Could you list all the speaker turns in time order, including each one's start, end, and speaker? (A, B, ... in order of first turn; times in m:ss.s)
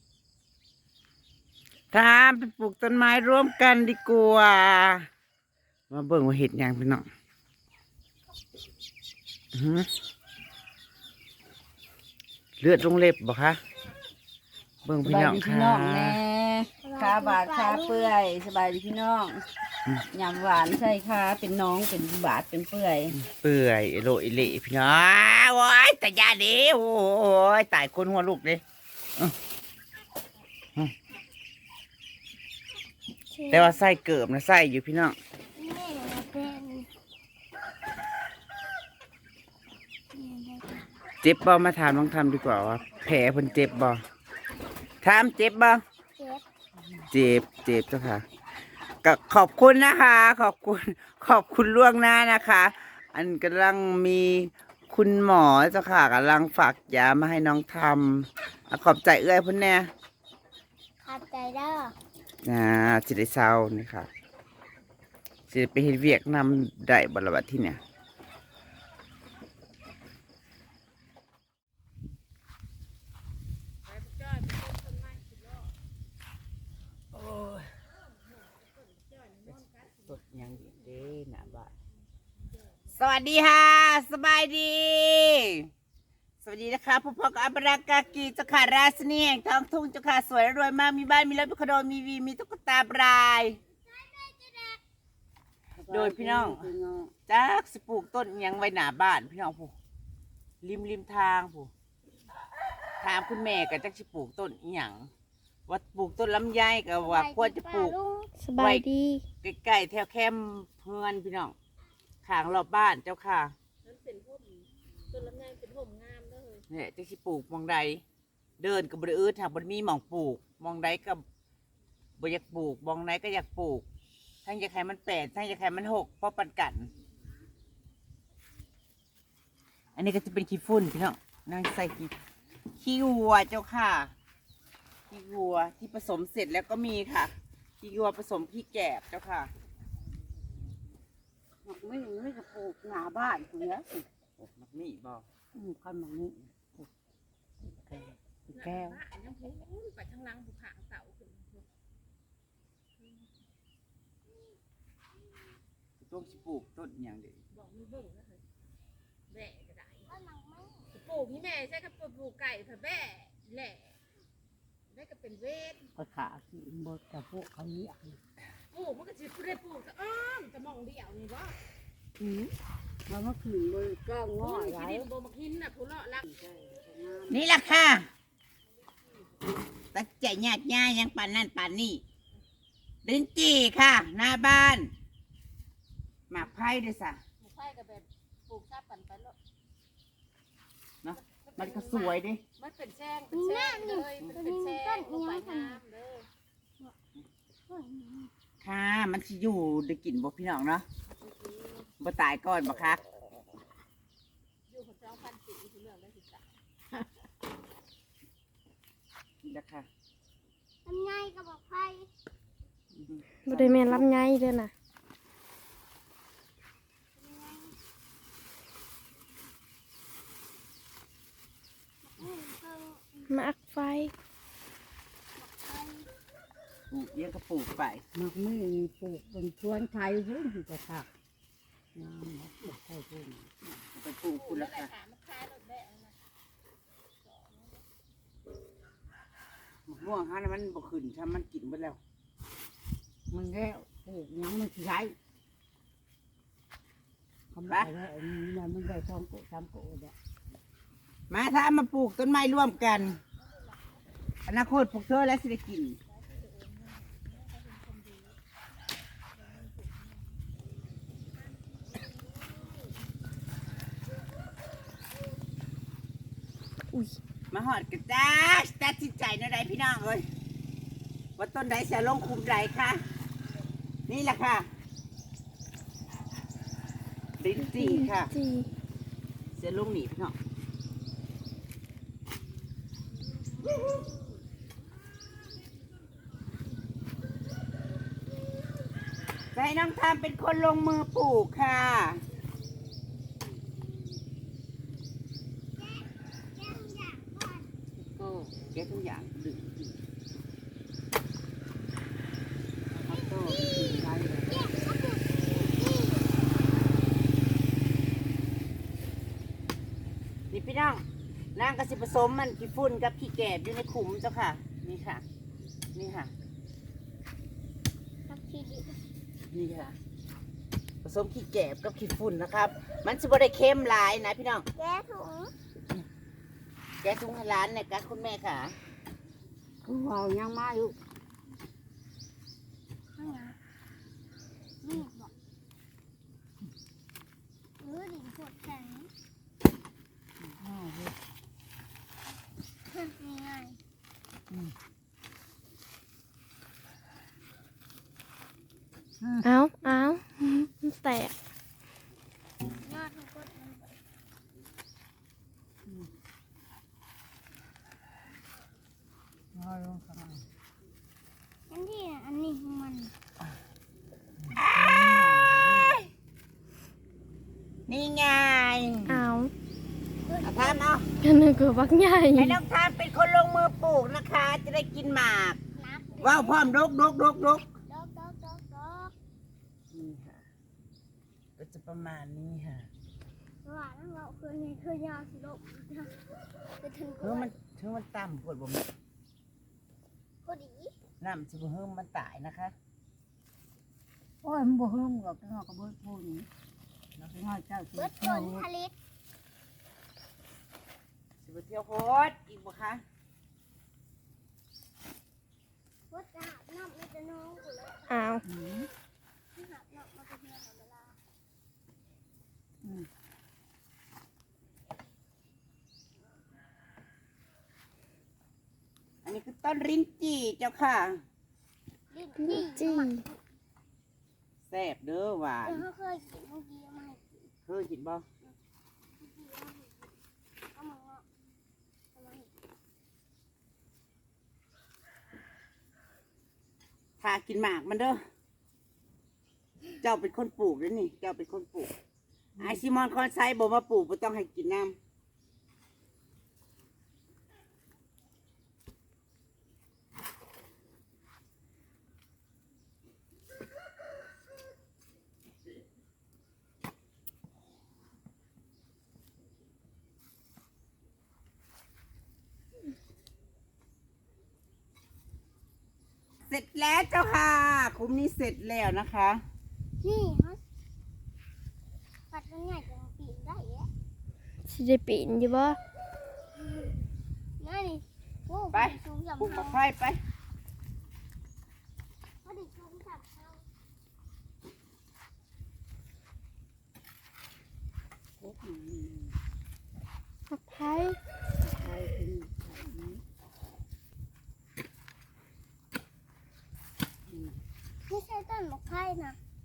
0:01.9-0:05.1 A
0:05.9-0:07.0 A
0:09.5-0:09.9 A
0:12.6-0:13.6 A
0:14.8-0:16.2 A
0:15.0-0:19.4 B
0:16.8-0:18.1 C
0:20.1-0:23.2 B
0:23.2-0:28.6 A
0:33.3-0:33.7 D
0:33.5-0:35.2 A
0:35.6-0:36.9 C
0:40.1-0:40.6 C
0:41.2-0:44.0 A
0:45.0-0:45.8 A
0:46.2-0:46.4 C
0:47.1-0:48.2 A
0:49.0-0:59.9 A
1:01.0-1:01.9 C
1:02.4-1:04.1 A
1:05.5-1:07.8 A
1:13.9-1:15.7 E
1:17.1-1:17.7 A
1:19.0-1:19.9 E
1:19.9-1:21.7 A
1:22.9-1:25.7 A
1:26.4-1:33.6 A
1:33.8-1:34.8 C
1:35.8-1:37.1 B
1:35.9-1:36.7 A
1:37.3-1:39.7 A
1:40.6-1:41.7 A
1:43.0-1:45.1 A
1:45.7-1:48.0 A
1:47.0-1:48.3 C
1:48.4-1:49.2 D
1:48.6-1:48.8 A
1:49.4-1:51.5 A
1:52.2-1:53.5 A
1:53.8-1:56.6 E
1:56.7-1:58.0 A
1:58.6-2:01.2 A
2:02.2-2:03.8 A
2:04.4-2:06.9 A
2:10.0-2:12.1 A
2:12.8-2:14.1 A
2:15.1-2:19.5 A
2:21.6-2:24.0 B
2:24.4-2:25.2 A
2:25.5-2:26.9 B
2:27.6-2:29.0 B
2:28.5-2:31.6 E
2:36.0-2:37.4 A
2:37.5-2:38.4 E
2:39.3-2:40.0 E
2:40.0-2:40.9 C
2:40.9-2:43.9 E
2:44.9-2:45.9 E
2:46.0-2:48.2 B
2:48.7-2:51.6 E
2:52.2-2:52.5 B
2:53.1-2:55.1 B
2:54.4-2:56.2 E
2:56.2-2:57.5 B
2:57.3-2:58.1 A
2:59.9-3:02.0 A
3:03.0-3:04.9 A
3:06.3-3:07.2 A
3:07.4-3:09.4 E
3:11.0-3:12.4 A
3:11.2-3:16.2 E
3:13.3-3:15.8 C
3:17.7-3:18.3 C
3:18.6-3:20.8 A
3:21.2-3:21.8 E
3:22.0-3:23.0 A
3:24.7-3:26.5 E
3:29.4-3:29.9 A
3:30.8-3:32.1 C
3:33.0-3:34.0 A
3:33.4-3:34.7 D
3:37.1-3:37.7 C
3:42.0-3:43.3 C
3:43.3-3:44.1 D
3:45.3-3:46.1 C
3:46.9-3:48.0 A
3:48.1-3:51.1 B
3:51.9-3:53.8 B
3:53.9-3:54.9 A
3:54.4-3:56.1 E
3:57.2-3:57.8 E
3:59.9-4:02.0 A
4:03.3-4:05.1 B
4:07.5-4:10.1 B
4:11.3-4:13.2 A
4:14.5-4:16.0 A
4:16.1-4:18.3 E
4:19.4-4:20.1 E
4:26.9-4:27.2 D
4:27.5-4:30.2 A
4:31.4-4:33.0 A
4:34.1-4:34.7 A
4:37.4-4:38.3 A
4:37.6-4:38.7 D
4:39.6-4:40.4 A
4:49.5-4:52.2 A
4:55.8-4:57.7 C
4:58.0-4:58.6 B
4:58.6-5:00.0 A
5:02.9-5:04.5 B
5:03.1-5:03.9 C
5:04.4-5:06.4 C
5:10.5-5:11.0 A
5:11.6-5:15.2 A
5:15.9-5:16.3 A
5:18.3-5:19.0 C
5:19.5-5:20.0 A
5:21.0-5:24.6 A
5:24.7-5:25.5 C
5:27.0-5:28.8 A
5:29.8-5:31.0 B
5:33.1-5:33.6 C
5:34.8-5:35.3 C
5:37.8-5:39.1 C
5:40.4-5:41.1 B
5:42.9-5:43.8 C
5:49.2-5:49.4 B
5:49.4-5:51.3 D
5:52.8-5:54.0 C
5:59.5-6:00.4 B
6:01.7-6:03.1 C
6:04.4-6:06.0 B
6:04.6-6:04.9 A
6:07.9-6:09.2 A
6:09.1-6:09.5 D
6:10.2-6:10.9 C
6:10.4-6:11.1 A
6:11.2-6:12.6 D
6:12.3-6:15.6 A
6:15.7-6:16.6 C
6:16.2-6:17.7 A
6:17.9-6:19.1 C
6:19.9-6:20.4 A
6:21.6-6:22.9 A
6:23.6-6:26.1 C
6:26.8-6:27.5 C
6:27.2-6:28.9 A
6:30.4-6:30.9 C
6:31.2-6:32.7 A
6:34.4-6:36.5 B
6:37.2-6:38.6 B
6:37.9-6:38.9 C
6:41.4-6:43.0 A
6:46.1-6:48.4 C
6:48.1-6:48.4 D
6:48.5-6:48.9 B
6:49.5-6:51.2 C
6:59.2-7:01.2 A
7:02.1-7:03.4 C
7:02.4-7:03.2 D
7:04.7-7:05.8 A
7:05.6-7:07.5 C
7:07.7-7:08.2 A
7:09.2-7:10.1 C
7:10.7-7:11.2 C
7:12.1-7:12.5 C
7:17.2-7:18.2 A
7:20.0-7:21.9 A
7:22.6-7:22.8 B
7:22.6-7:25.0 A
7:46.5-7:49.4 A
7:50.0-7:50.6 C
7:52.3-7:53.9 C
7:54.7-7:55.8 D
7:56.6-7:57.0 C
7:57.6-7:59.8 C
7:58.7-8:00.2 A
8:02.4-8:03.6 C
8:08.4-8:09.4 B
8:10.5-8:11.2 D
8:11.6-8:13.2 B
8:17.3-8:17.6 B
8:18.1-8:19.4 C